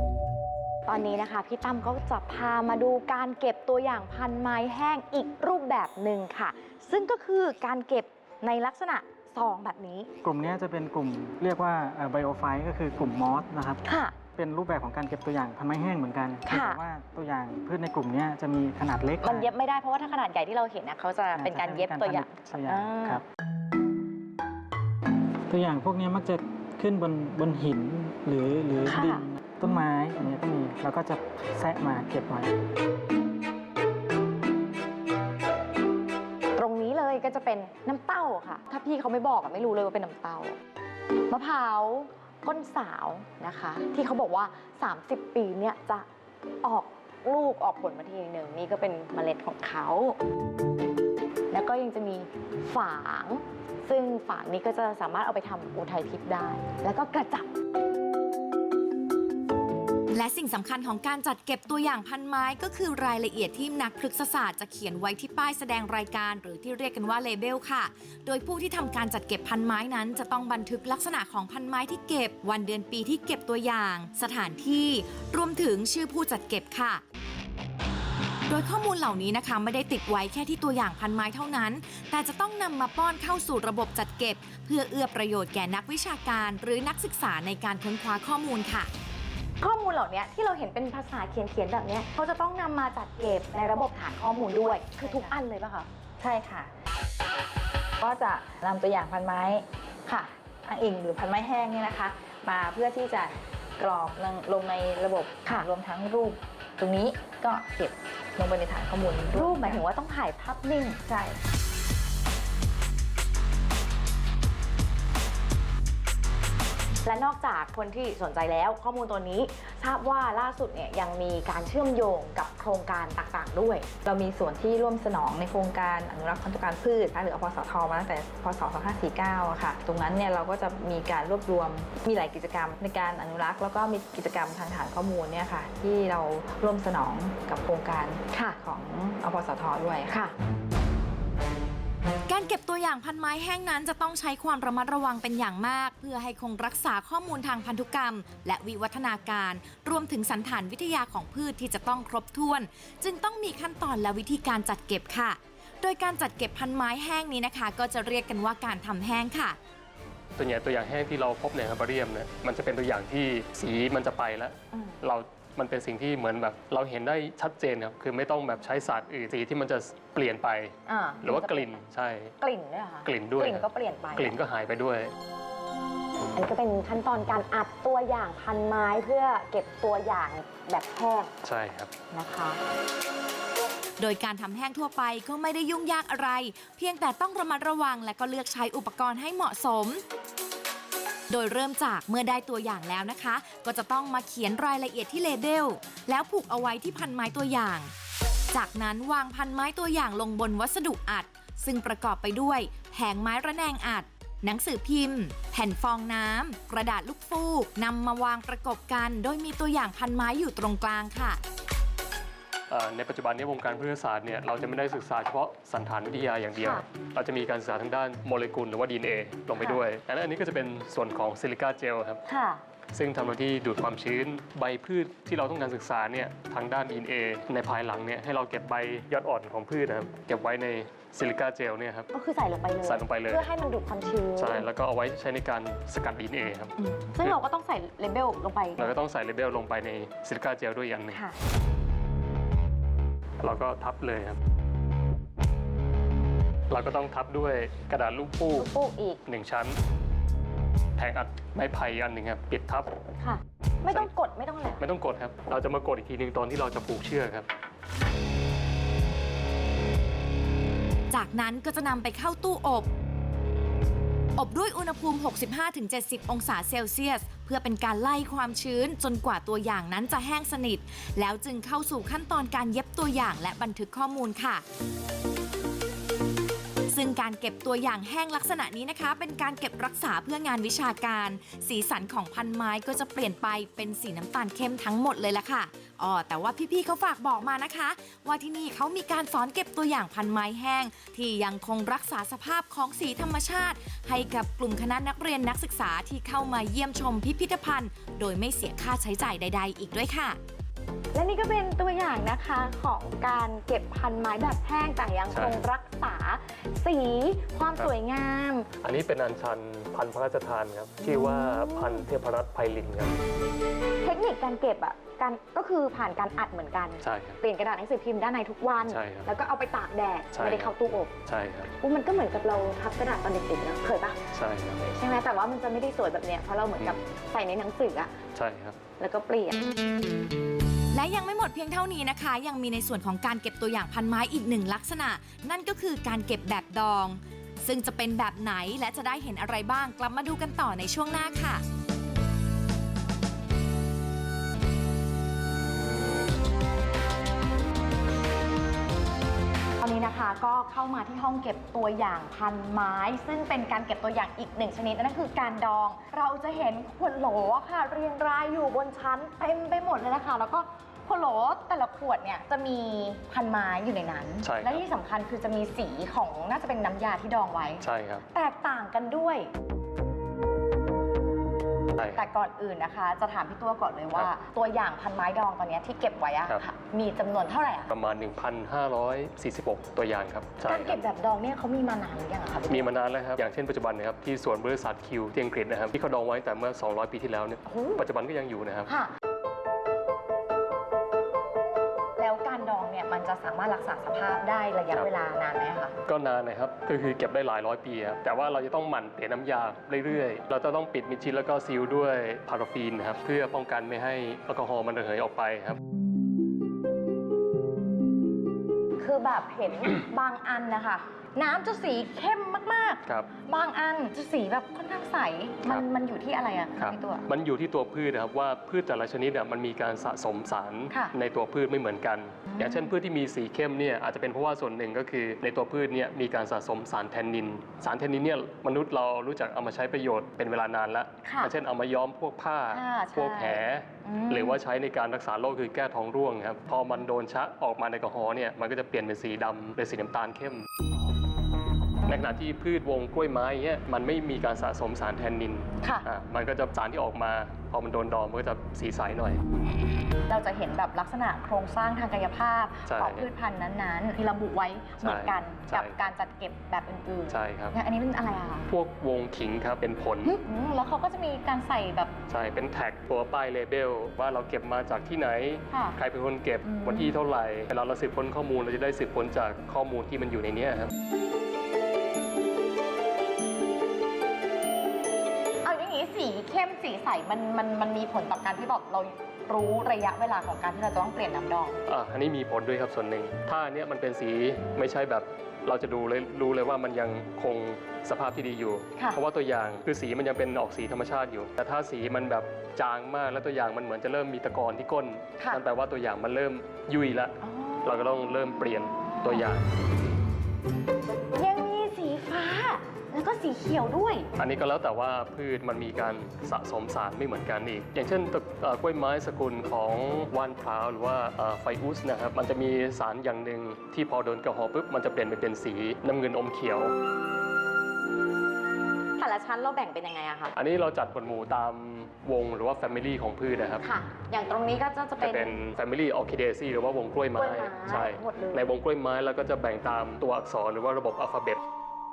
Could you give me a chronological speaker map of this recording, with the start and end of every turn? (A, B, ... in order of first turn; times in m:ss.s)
0:00.9-0:10.1 A
0:10.2-0:13.8 B
0:13.8-0:14.2 A
0:14.4-0:19.5 B
0:16.5-0:16.8 A
0:19.2-0:23.2 A
0:21.3-0:23.2 B
0:25.5-0:32.5 B
0:28.8-0:29.8 A
0:36.6-0:40.6 A
0:41.3-0:46.0 A
0:46.6-0:50.2 A
0:51.5-0:57.5 A
1:00.1-1:17.0 C
1:18.5-1:28.9 C
1:29.6-1:35.9 A
1:34.5-1:35.4 D
1:36.2-1:36.7 D
1:38.0-1:49.8 D
1:49.3-1:51.0 A
1:51.0-1:51.4 D
1:57.0-2:03.9 A
2:04.0-2:20.3 D
2:22.3-2:39.6 C
2:40.4-2:52.3 E
2:50.9-2:51.8 A
2:52.4-2:54.3 A
2:53.0-2:55.1 E
2:56.3-3:01.3 A
3:01.4-3:01.9 E
3:02.1-3:02.6 A
3:04.0-3:10.0 C
3:11.3-3:17.9 C
3:18.5-3:31.4 C
3:32.7-3:42.2 E
3:36.6-3:36.8 A
3:39.6-3:39.8 A
3:42.3-3:42.6 A
3:42.9-3:52.1 E
3:52.1-3:54.7 A
3:52.8-3:53.4 E
3:54.4-3:57.4 E
3:56.8-3:58.9 A
3:58.8-4:01.2 E
4:01.1-4:01.4 A
4:03.4-4:04.4 E
4:06.7-4:08.7 E
4:08.6-4:09.2 A
4:09.2-4:09.8 E
4:11.0-4:12.9 E
4:13.2-4:14.8 A
4:14.8-4:17.5 E
4:21.1-4:22.9 C
4:24.4-4:34.6 C
4:36.9-5:00.4 C
5:01.1-5:08.7 A
5:05.3-5:05.6 E
5:08.8-5:13.2 E
5:11.0-5:12.0 A
5:14.0-5:21.1 A
5:17.0-5:17.4 E
5:18.9-5:19.3 E
5:20.3-5:20.7 E
5:21.2-5:21.7 E
5:21.8-5:24.2 A
5:24.3-5:24.8 E
5:24.8-5:28.1 A
5:28.3-5:28.8 E
5:29.0-5:29.6 A
5:30.9-5:41.6 C
5:49.8-6:09.5 A
6:04.4-6:04.8 E
6:07.8-6:08.2 E
6:11.9-6:12.2 E
6:12.1-6:17.9 A
6:17.9-6:21.0 E
6:20.6-6:22.9 A
6:22.7-6:28.9 E
6:27.6-6:28.0 A
6:28.9-6:29.1 A
6:32.2-6:35.9 A
6:36.0-6:45.8 E
6:49.0-6:57.2 A
6:56.8-7:20.6 E
7:02.5-7:02.9 A
7:11.2-7:11.5 A
7:12.7-7:14.6 A
7:22.1-7:29.4 E
7:30.3-7:38.6 A
7:32.9-7:33.3 E
7:35.0-7:36.0 E
7:37.3-7:37.8 E
7:38.7-7:40.4 E
7:40.2-7:42.1 A
7:42.3-7:50.9 E
7:45.7-7:46.0 A
7:46.6-7:47.1 A
7:55.6-8:01.8 A
8:01.8-8:19.6 E
8:17.4-8:18.1 A
8:18.8-8:19.5 A
8:21.3-8:24.3 A
8:24.4-8:36.9 E
8:39.2-8:40.5 A
8:40.5-8:43.8 E
8:43.8-8:45.5 A
8:45.2-8:51.6 E
8:47.4-8:48.6 A